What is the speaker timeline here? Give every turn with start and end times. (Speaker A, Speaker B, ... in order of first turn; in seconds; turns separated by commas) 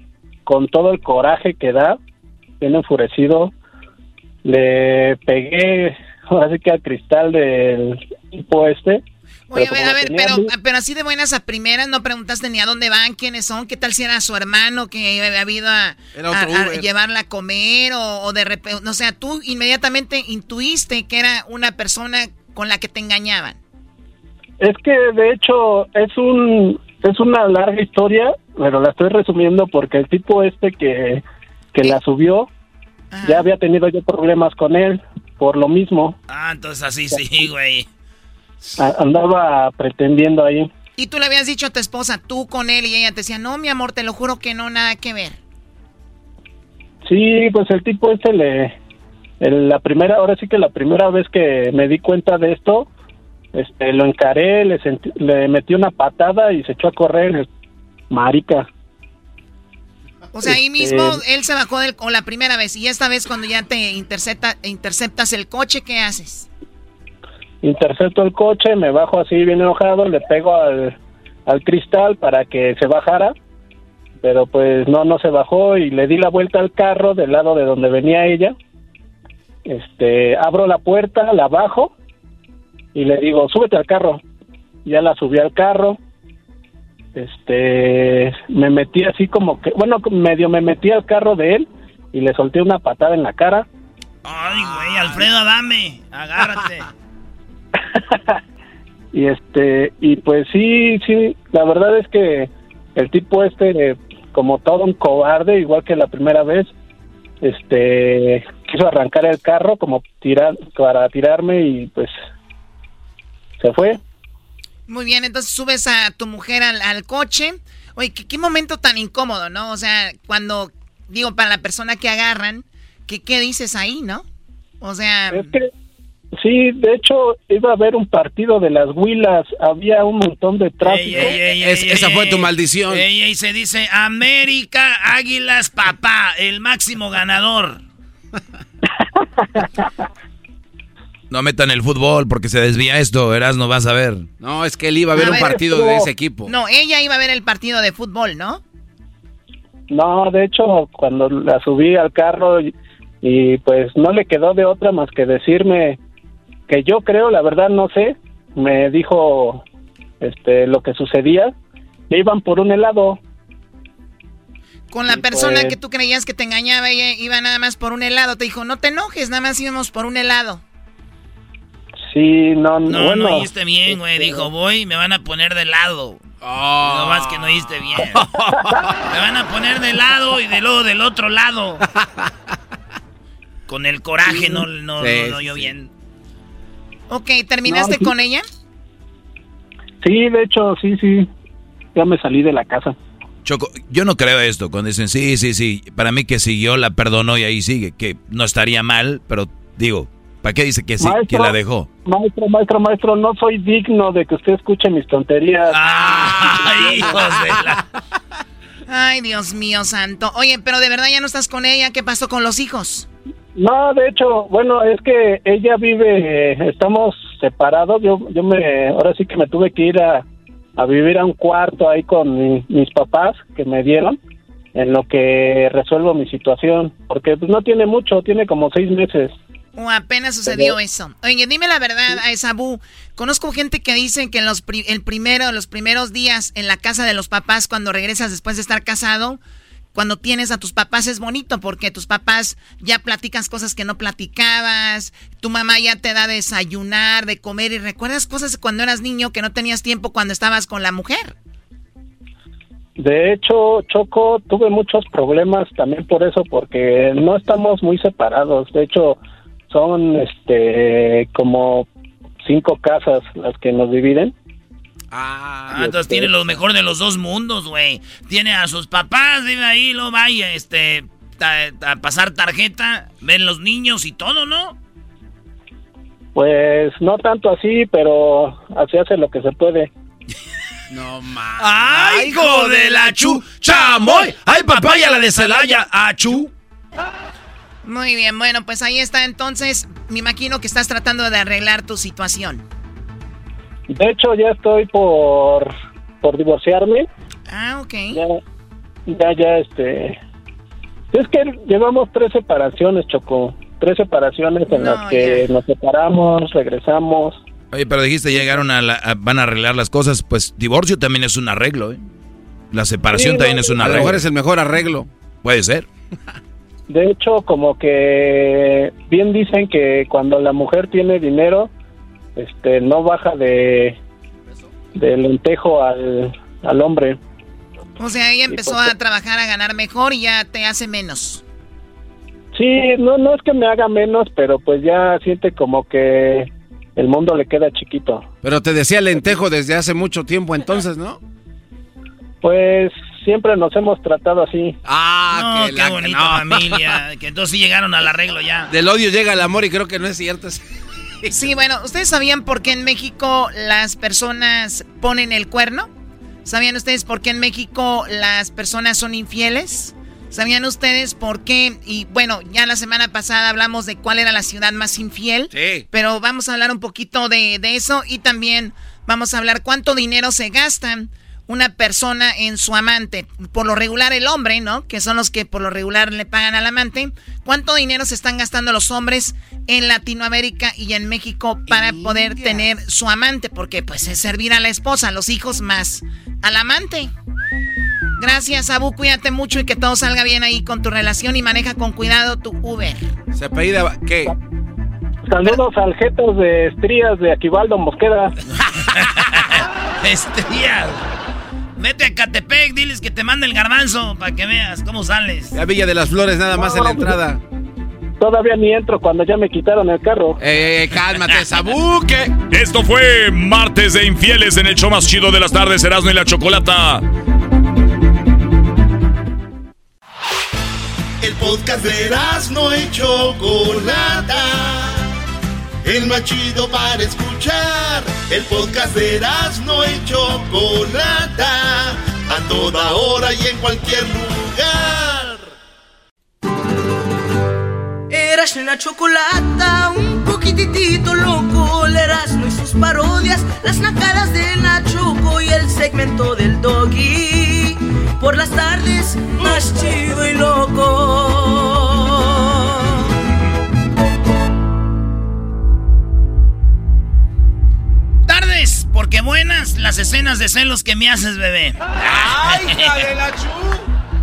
Speaker A: 0.5-2.0, Speaker A: 2.6-3.5, Speaker A: 4.5-9.0, Speaker B: 9.5-23.6, Speaker A: 9.5-10.5, Speaker C: 16.1-16.9, Speaker A: 24.6-31.2, Speaker A: 31.7-32.5, Speaker B: 33.1-33.5, Speaker A: 33.2-36.2, Speaker D: 36.3-37.9, Speaker A: 38.8-40.7, Speaker B: 41.0-45.4, Speaker A: 47.1-48.8, Speaker A: 49.4-52.9, Speaker A: 53.5-57.5, Speaker A: 58.1-58.7, Speaker B: 60.3-66.5, Speaker A: 60.5-61.2, Speaker A: 67.6-71.0, Speaker A: 71.5-73.3, Speaker A: 74.2-78.5, Speaker A: 79.7-81.9, Speaker A: 83.0-84.2, Speaker A: 84.9-86.0, Speaker A: 87.2-93.7, Speaker D: 94.2-96.9, Speaker A: 99.1-106.7, Speaker A: 107.4-112.1, Speaker A: 113.6-114.0, Speaker B: 114.9-124.2, Speaker B: 124.8-125.5, Speaker A: 125.3-125.7, Speaker A: 126.4-131.5, Speaker D: 130.9-137.8, Speaker C: 131.5-133.1, Speaker E: 141.3-144.3, Speaker C: 144.4-146.5, Speaker A: 145.2-146.1, Speaker B: 145.2-145.6, Speaker B: 146.5-148.6, Speaker A: 149.9-152.7, Speaker A: 153.2-156.0, Speaker A: 156.7-159.6, Speaker A: 160.2-161.5, Speaker A: 162.1-163.2, Speaker B: 164.9-170.6, Speaker A: 165.1-165.8, Speaker A: 172.1-174.5, Speaker D: 172.9-176.2, Speaker C: 176.4-178.3, Speaker D: 176.8-178.2, Speaker D: 179.1-181.8, Speaker D: 183.7-185.9, Speaker C: 185.0-185.7, Speaker B: 187.1-188.5, Speaker A: 187.7-188.1, Speaker A: 190.0-191.3, Speaker A: 191.9-193.0, Speaker E: 193.4-201.9, Speaker A: 201.0-201.5, Speaker A: 202.1-207.2, Speaker D: 205.7-207.8, Speaker C: 206.1-206.5, Speaker B: 208.9-213.1, Speaker A: 213.6-220.2, Speaker A: 220.8-224.2, Speaker A: 224.8-229.3, Speaker B: 229.8-239.4, Speaker A: 230.5-230.8, Speaker B: 239.9-251.3, Speaker A: 253.0-259.2, Speaker A: 259.7-261.9, Speaker A: 262.4-264.3, Speaker C: 265.1-265.8, Speaker D: 265.7-274.8, Speaker A: 265.7-266.4, Speaker A: 276.4-279.9, Speaker C: 280.9-284.4, Speaker D: 281.6-286.4, Speaker E: 285.2-285.8, Speaker C: 285.4-285.6, Speaker B: 287.8-292.6, Speaker A: 293.9-297.1, Speaker B: 297.5-298.2, Speaker A: 299.1-300.2, Speaker A: 301.1-307.4, Speaker B: 304.7-305.5, Speaker E: 307.7-312.0, Speaker E: 312.7-314.2, Speaker A: 313.1-314.1, Speaker C: 313.8-315.1, Speaker E: 315.4-315.9, Speaker A: 316.9-321.7, Speaker A: 322.4-324.0, Speaker A: 324.9-327.2, Speaker B: 328.0-331.4, Speaker A: 328.5-328.9, Speaker A: 332.5-338.3, Speaker C: 338.4-341.2, Speaker A: 342.4-344.8, Speaker C: 344.9-346.8, Speaker D: 345.3-348.7, Speaker C: 348.7-350.6, Speaker C: 351.2-351.6, Speaker B: 351.3-355.9, Speaker B: 356.4-387.1, Speaker C: 365.5-365.9, Speaker C: 381.7-382.7, Speaker B: 388.2-393.1, Speaker C: 393.3-394.3, Speaker A: 395.3-398.3, Speaker D: 399.2-399.5, Speaker D: 400.0-401.0, Speaker D: 401.8-405.6, Speaker C: 405.5-407.4, Speaker A: 406.5-407.2, Speaker A: 408.2-410.4, Speaker C: 410.4-412.3, Speaker F: 412.5-417.0, Speaker G: 421.2-425.1, Speaker G: 425.8-435.5, Speaker H: 438.1-452.4, Speaker D: 458.3-462.0, Speaker C: 462.3-463.8, Speaker D: 462.5-462.8